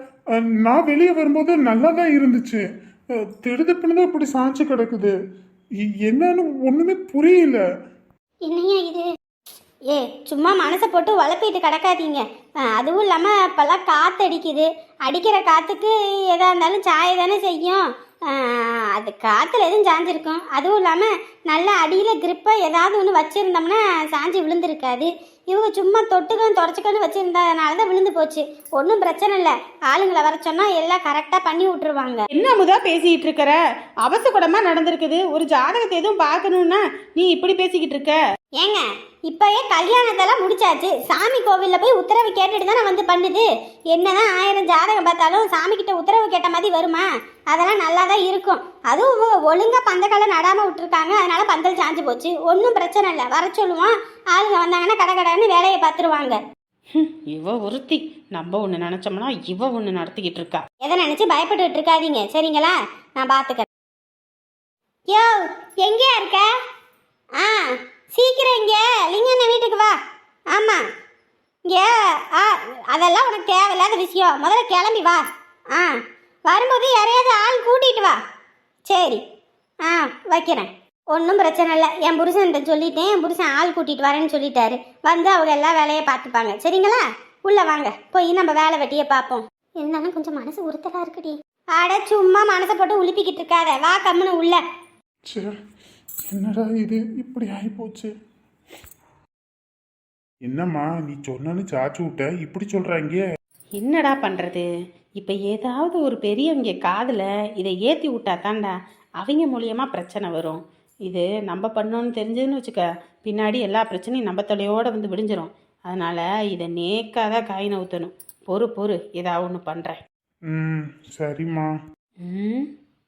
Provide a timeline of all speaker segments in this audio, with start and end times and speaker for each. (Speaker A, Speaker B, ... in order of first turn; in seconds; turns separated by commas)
Speaker A: 0.4-2.6, Speaker A: 3.2-5.1, Speaker A: 5.8-7.6, Speaker B: 8.4-9.1, Speaker B: 9.9-32.2, Speaker C: 32.3-38.2, Speaker B: 38.6-56.4, Speaker C: 56.9-60.6, Speaker B: 60.8-63.6, Speaker B: 65.1-66.5, Speaker B: 67.4-70.0, Speaker B: 70.5-70.8, Speaker B: 71.7-78.2, Speaker B: 78.9-79.2, Speaker B: 79.8-94.6, Speaker A: 96.3-98.1, Speaker A: 100.4-103.2, Speaker C: 103.8-104.7, Speaker C: 105.2-120.0, Speaker A: 120.5-121.7, Speaker C: 122.2-122.7